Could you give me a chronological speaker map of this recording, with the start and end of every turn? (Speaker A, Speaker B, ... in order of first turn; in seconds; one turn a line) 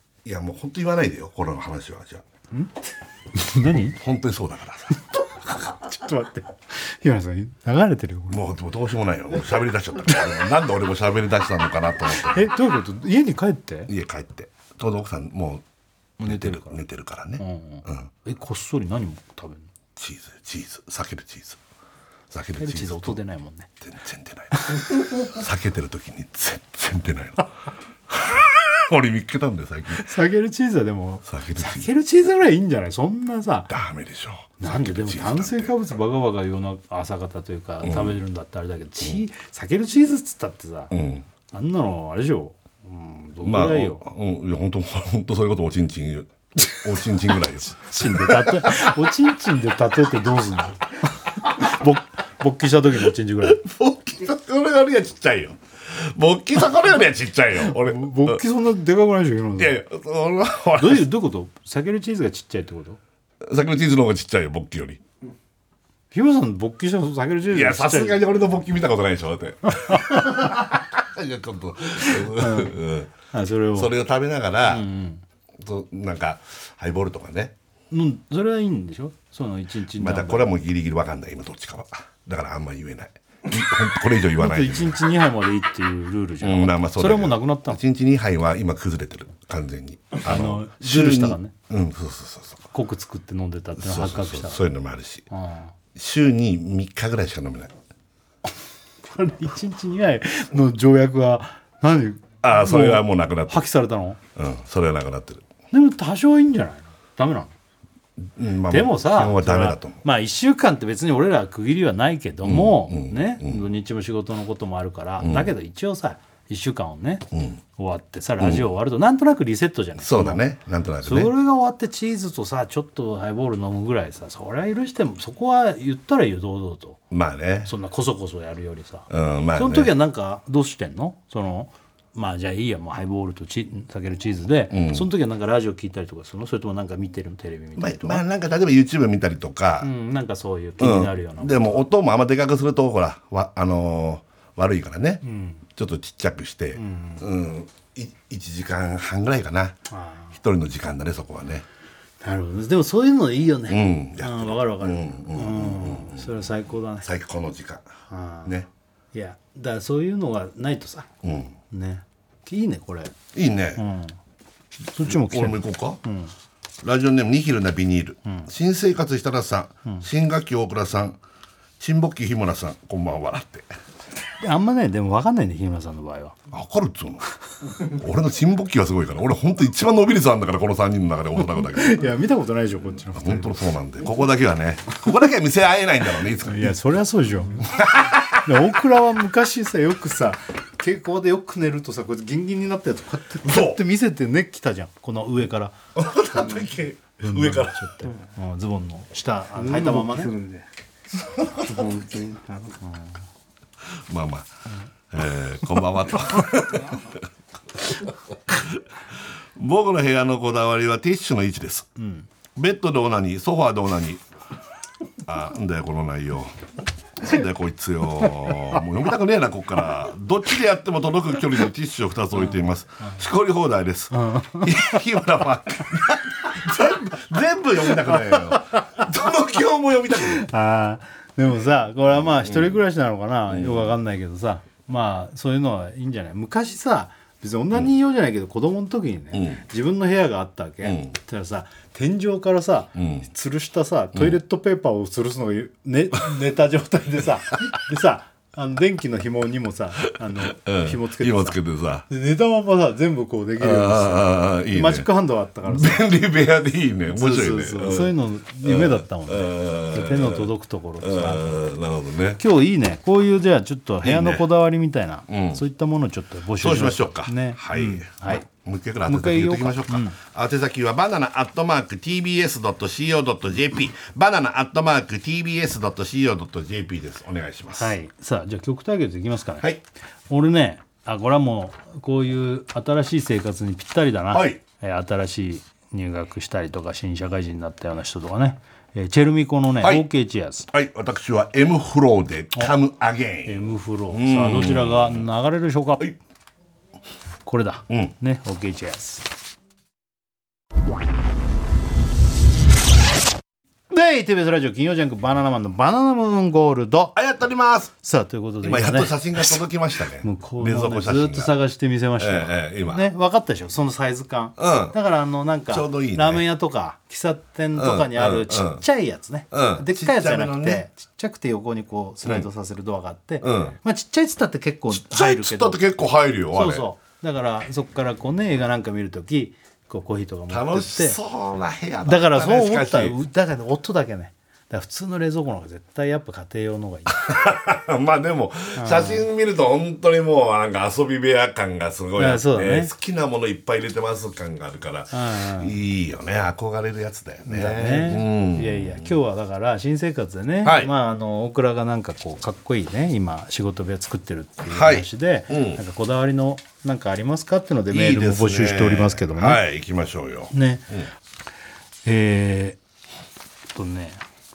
Speaker A: 0.2-2.2
Speaker B: 3.3-4.0
Speaker A: 3.9-5.0
Speaker B: 5.0-8.4
Speaker A: 8.3-12.5
Speaker B: 12.2-13.9
Speaker A: 13.9-15.6
Speaker B: 16.2-16.8
Speaker A: 16.2-18.1
Speaker B: 17.4-19.7
Speaker A: 19.9-21.6
Speaker A: 22.3-23.2
Speaker B: 22.6-23.7
Speaker A: 23.8-27.5
Speaker B: 24.5-25.1
Speaker A: 28.1-30.1
Speaker B: 29.9-33.7
Speaker A: 31.2-31.9
Speaker A: 33.7-35.7
Speaker B: 34.6-40.9
Speaker A: 37.8-38.2
Speaker A: 40.9-41.2
Speaker B: 41.5-44.0
Speaker A: 43.4-49.0
Speaker B: 47.8-53.6
Speaker A: 53.4-58.4
Speaker B: 57.6-59.8
Speaker A: 59.6-61.1
Speaker B: 60.8-63.0
Speaker A: 63.4-65.0
Speaker B: 66.1-68.2
Speaker A: 67.5-73.1
Speaker B: 69.8-70.6
Speaker B: 72.0-72.7
Speaker B: 73.3-73.9
Speaker A: 73.7-74.9
Speaker B: 74.6-75.2
Speaker A: 75.6-77.5
Speaker B: 77.9-80.5
Speaker A: 79.9-85.0
Speaker B: 84.4-87.8
Speaker A: 86.4-92.6
Speaker B: 90.1-91.5
Speaker B: 92.7-94.6
Speaker A: 93.8-95.3
Speaker B: 95.3-95.7
Speaker A: 95.9-97.7
Speaker B: 99.0-104.2
Speaker A: 102.4-103.7
Speaker A: 104.3-105.5
Speaker B: 105.7-107.5
Speaker A: 108.2-110.0
Speaker B: 108.7-120.4
Speaker A: 112.4-113.6
Speaker A: 115.2-115.5
Speaker A: 118.4-118.7
Speaker A: 120.0-121.3
Speaker B: 121.0-127.0
Speaker A: 127.1-127.7
Speaker B: 127.6-138.2
Speaker A: 129.1-129.9
Speaker A: 134.7-135.1
Speaker A: 137.8-139.9
Speaker B: 139.8-141.8
Speaker A: 140.8-149.8
Speaker B: 145.2-145.6
Speaker B: 146.7-147.2
Speaker B: 149.9-150.3
Speaker A: 150.3-151.6
Speaker B: 152.2-157.1
Speaker A: 153.7-156.3
Speaker A: 157.0-157.9
Speaker B: 158.1-158.6
Speaker B: 159.1-161.1
Speaker A: 161.2-161.5
Speaker B: 161.7-163.1
Speaker A: 163.3-163.8
Speaker B: 163.8-164.2
Speaker B: 164.9-166.3
Speaker A: 165.0-166.0
Speaker A: 166.8-171.2
Speaker A: 171.8-173.7
Speaker B: 174.4-176.4
Speaker A: 176.5-177.2
Speaker A: 177.8-182.0
Speaker B: 181.4-183.6
Speaker A: 183.1-186.8
Speaker B: 186.4-187.8
Speaker A: 187.6-188.5
Speaker B: 188.3-195.8
Speaker A: 193.4-193.8
Speaker A: 195.9-197.9
Speaker B: 197.2-200.3
Speaker C: 199.5-200.7
Speaker A: 201.3-201.7
Speaker C: 201.6-202.8
Speaker A: 204.1-204.5
Speaker A: 205.1-207.2
Speaker A: 207.8-208.8
Speaker A: 209.6-211.9
Speaker B: 212.0-212.3
Speaker A: 212.6-214.2
Speaker A: 215.2-216.5
Speaker A: 217.2-230.4
Speaker B: 224.1-225.0
Speaker B: 228.0-229.1
Speaker B: 230.2-251.6
Speaker A: 232.2-232.8
Speaker A: 233.5-233.9
Speaker A: 239.3-239.6
Speaker A: 240.8-241.2
Speaker A: 242.9-243.3
Speaker A: 244.1-244.4
Speaker A: 250.4-252.1
Speaker B: 252.1-256.1
Speaker A: 253.6-255.1
Speaker A: 255.6-262.4
Speaker B: 257.1-261.6
Speaker B: 262.4-268.5
Speaker A: 264.0-264.4
Speaker A: 265.3-265.6
Speaker A: 266.6-277.9
Speaker B: 269.1-270.2
Speaker B: 277.8-279.7
Speaker B: 280.3-290.7
Speaker A: 284.3-284.6
Speaker A: 289.8-290.1
Speaker A: 290.7-295.2
Speaker B: 293.4-296.1
Speaker B: 297.4-299.2
Speaker B: 303.9-307.1
Speaker A: 307.1-307.9
Speaker B: 308.0-309.6
Speaker A: 308.6-311.6
Speaker B: 310.2-325.8
Speaker A: 312.2-313.1
Speaker A: 314.6-314.9
Speaker A: 315.7-316.4
Speaker A: 317.7-318.8
Speaker A: 319.5-320.8
Speaker A: 323.4-323.7
Speaker A: 324.9-326.9
Speaker B: 326.5-331.2
Speaker A: 330.5-333.1
Speaker B: 332.0-337.2
Speaker A: 337.1-349.1
Speaker B: 338.7-339.2
Speaker B: 342.2-342.9
Speaker B: 345.1-345.7
Speaker B: 347.4-359.6
Speaker A: 350.6-350.9
Speaker A: 354.7-355.8
Speaker A: 357.9-361.1
Speaker B: 360.5-360.9
Speaker B: 362.0-362.8
Speaker B: 363.7-364.2